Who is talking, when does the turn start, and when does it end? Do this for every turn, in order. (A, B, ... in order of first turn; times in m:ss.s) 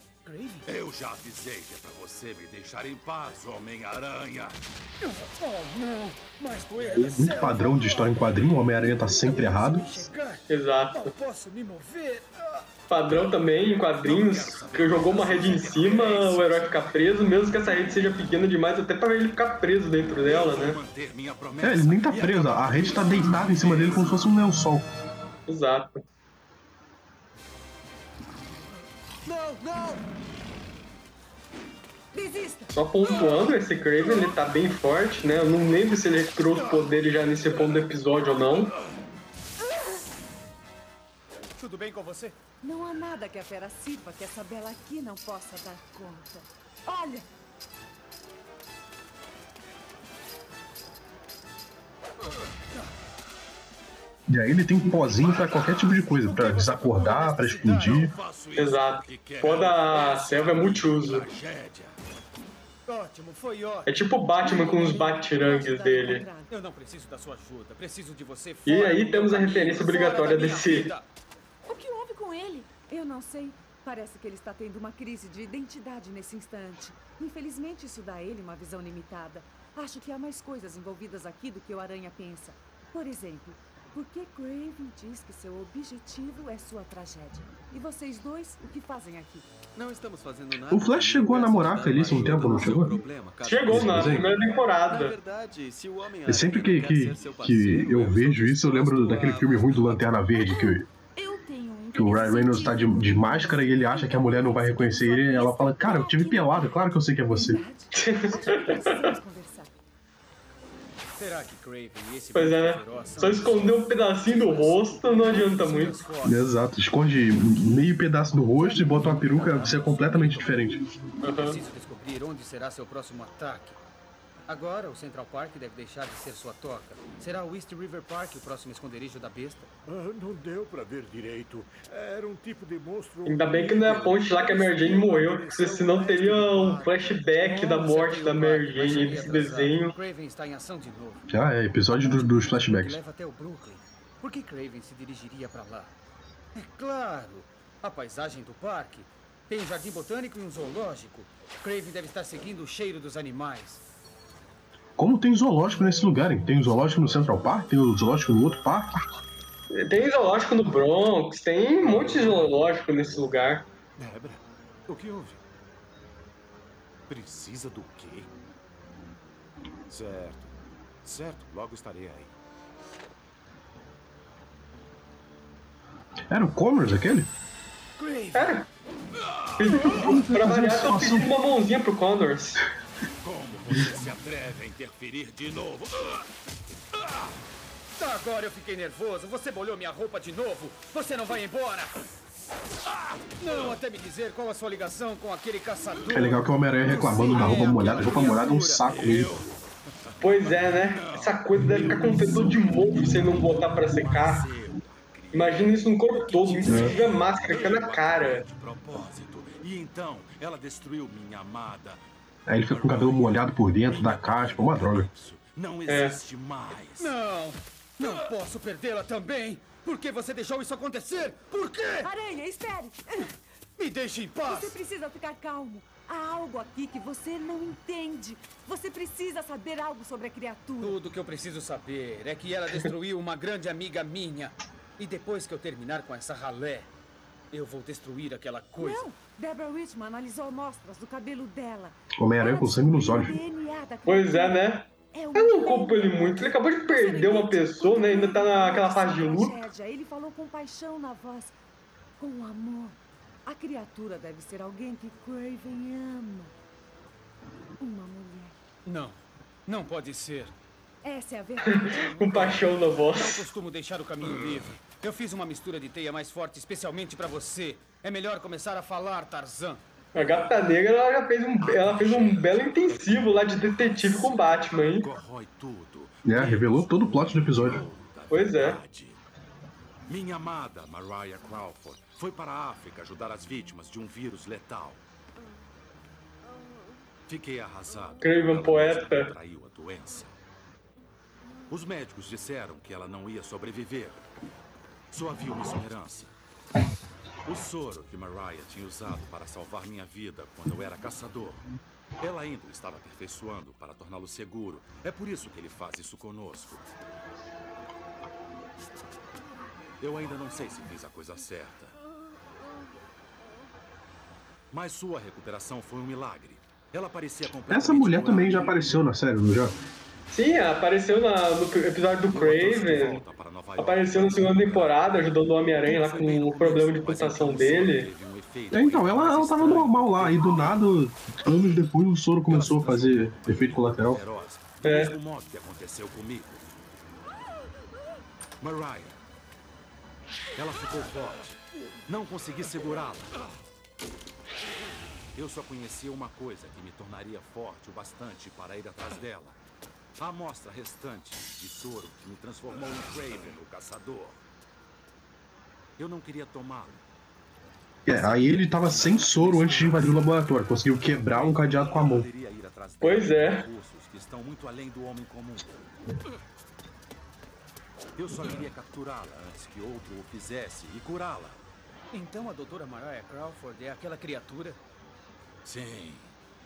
0:00.2-0:00.7 A
0:00.6-0:04.6 B
0:05.0-0:12.6 A
0:07.0-0:10.0 C
0:10.5-0:11.1 D
0:12.9-0:20.8 D
0:14.0-0:16.6 B
0:14.6-0:16.2 A
0:20.2-0:24.3 B
0:21.6-0:24.8 C
0:25.5-0:26.0 D
0:29.2-0:30.0 E
0:32.1-0:32.7 F
0:32.7-0:38.7 D
0:41.6-0:42.4 A
0:42.6-0:47.3 F
0:54.3-0:58.1 C
0:55.2-0:56.1 B
0:56.3-0:58.0 A
0:57.6-1:01.9 B
0:58.6-1:01.3 D
1:02.9-1:03.9 A
1:03.9-1:06.2 D
1:04.4-1:06.5 F
1:06.5-1:11.1 A
1:08.6-1:10.9 D
1:11.6-1:12.7 G
1:12.8-1:29.5 F
1:29.7-1:40.2 E
1:30.7-1:32.9 C
1:33.4-1:35.2 D
1:33.7-1:34.3 C
1:36.2-1:40.9 C
1:40.3-1:46.4 G
1:41.9-1:47.6 C
1:44.2-1:49.7 F
1:47.9-1:49.0 D
1:51.2-1:56.4 A
1:52.3-1:56.0 D
1:56.2-2:00.9 C
1:58.6-2:00.5 A
2:01.2-2:01.6 D
2:01.3-2:03.8 A
2:04.5-2:09.7 A
2:09.9-2:13.3 B
2:13.2-2:19.9 D
2:13.4-2:16.9 E
2:17.4-2:21.2 A
2:21.3-2:23.0 C
2:21.9-2:25.9 A
2:26.5-2:33.8 A
2:35.0-2:39.0 C
2:39.7-2:43.6 D
2:42.1-2:42.4 B
2:44.0-2:45.4 B
2:47.1-2:48.3 B
2:49.9-2:50.5 B
2:51.0-2:52.3 B
2:56.3-2:57.3 C
2:58.0-2:58.6 A
2:58.3-2:58.6 D
2:59.4-2:59.9 B
2:59.6-3:02.6 D
2:59.8-3:01.3 C
3:03.2-3:06.3 B
3:07.0-3:07.2 B
3:08.0-3:12.0 A
3:13.4-3:18.9 A
3:16.1-3:19.4 C
3:17.4-3:18.2 B
3:18.8-3:19.5 B
3:20.1-3:32.0 B
3:20.2-3:24.5 D
3:21.8-3:22.4 C
3:25.3-3:28.4 D
3:26.6-3:27.0 C
3:32.5-3:35.1 C
3:32.6-3:37.1 B
3:35.9-3:36.2 D
3:37.0-3:42.1 A
3:42.0-3:43.3 F
3:43.8-3:44.8 A
3:44.4-3:51.0 F
3:50.8-3:56.9 A
3:57.5-3:59.0 A
3:58.8-4:11.5 F
4:02.2-4:03.4 C
4:04.0-4:09.6 D
4:12.2-4:16.5 F
4:17.8-4:18.6 F
4:18.8-4:20.6 A
4:21.0-4:22.1 F
4:21.7-4:23.4 D
4:22.0-4:29.8 A
4:30.1-4:35.1 D
4:31.6-4:39.2 B
4:36.2-4:37.8 C
4:38.3-4:38.8 D
4:40.1-4:45.0 B
4:47.3-4:50.3 B
4:48.2-4:49.3 D
4:51.7-4:54.2 B
4:55.1-4:56.3 B
4:57.4-5:01.6 B
5:02.2-5:06.9 B
5:10.0-5:11.9 B
5:14.7-5:19.1 B
5:17.7-5:19.8 C
5:20.3-5:23.2 D
5:22.3-5:25.1 B
5:23.8-5:28.1 D
5:25.8-5:30.8 B
5:28.7-5:34.2 C
5:32.5-5:36.7 B
5:34.8-5:35.1 D
5:38.6-5:39.2 B
5:40.5-5:41.5 B
5:42.1-5:43.4 B
5:45.3-5:49.6 B
5:50.2-5:54.4 B
5:56.0-5:57.0 B
5:58.0-6:02.3 C
5:58.1-6:05.7 B
6:03.0-6:03.6 D
6:08.2-6:11.6 B
6:12.1-6:14.8 A
6:15.6-6:16.3 B